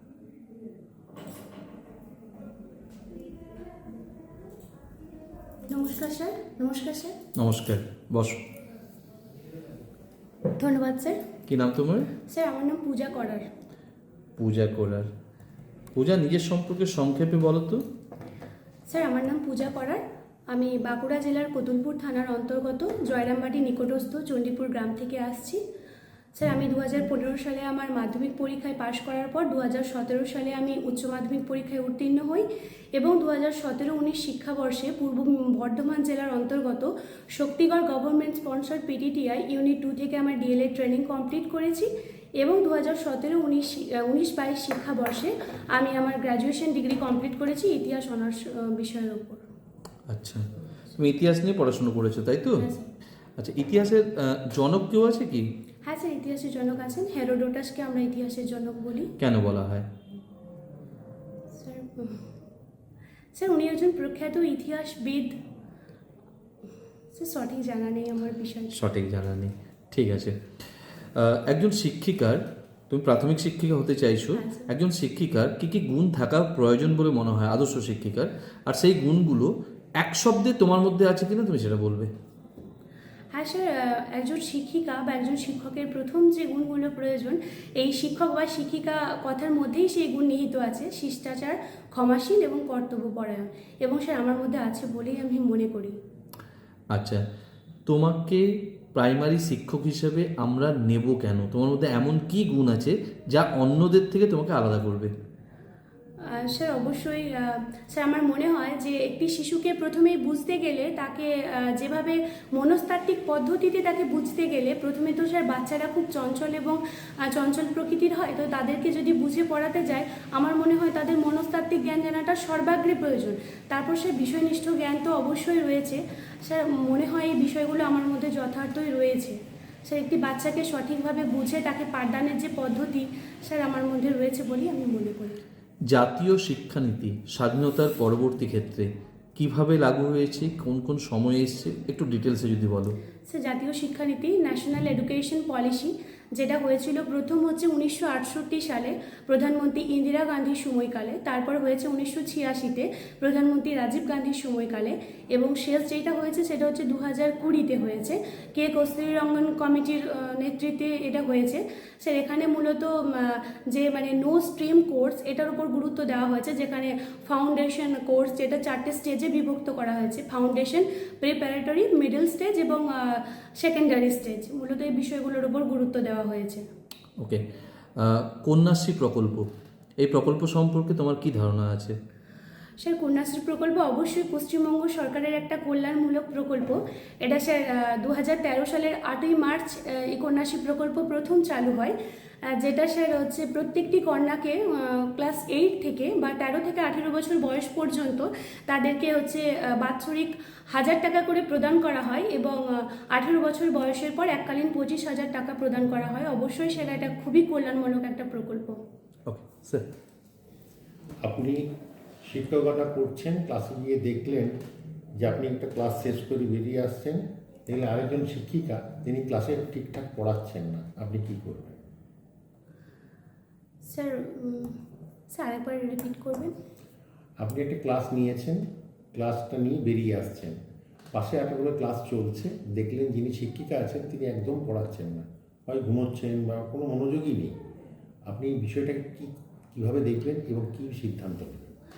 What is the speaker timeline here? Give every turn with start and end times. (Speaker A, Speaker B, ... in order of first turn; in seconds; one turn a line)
Speaker A: 5.7-7.2
Speaker B: 7.3-8.4
Speaker A: 10.6-11.2
Speaker B: 11.5-12.1
Speaker A: 12.3-13.4
Speaker B: 14.4-15.1
Speaker B: 15.9-17.8
Speaker A: 18.9-25.6
Speaker A: 26.3-32.4
Speaker A: 33.0-41.9
Speaker A: 42.4-49.5
Speaker B: 50.1-50.4
Speaker B: 51.0-52.6
Speaker A: 52.6-52.9
Speaker B: 53.4-55.5
Speaker A: 55.9-59.1
Speaker B: 59.2-59.9
Speaker A: 61.5-62.2
Speaker A: 63.3-65.3
Speaker A: 67.1-68.8
Speaker B: 68.7-70.4
Speaker B: 71.2-79.5
Speaker A: 74.3-74.7
Speaker B: 80.0-82.1
Speaker A: 83.3-96.0
Speaker B: 96.9-97.2
Speaker B: 97.9-105.1
Speaker A: 106.2-135.4
Speaker B: 135.9-142.9
Speaker A: 143.2-176.7
Speaker B: 178.0-179.5
Speaker B: 180.0-181.9
Speaker A: 182.8-191.9
Speaker A: 192.6-208.8
Speaker B: 209.3-209.8
Speaker C: 211.2-211.7
Speaker C: 212.2-214.6
Speaker C: 215.2-221.8
Speaker A: 223.8-224.8
Speaker A: 225.3-226.5
Speaker C: 227.4-230.6
Speaker C: 231.1-237.5
Speaker C: 238.3-241.7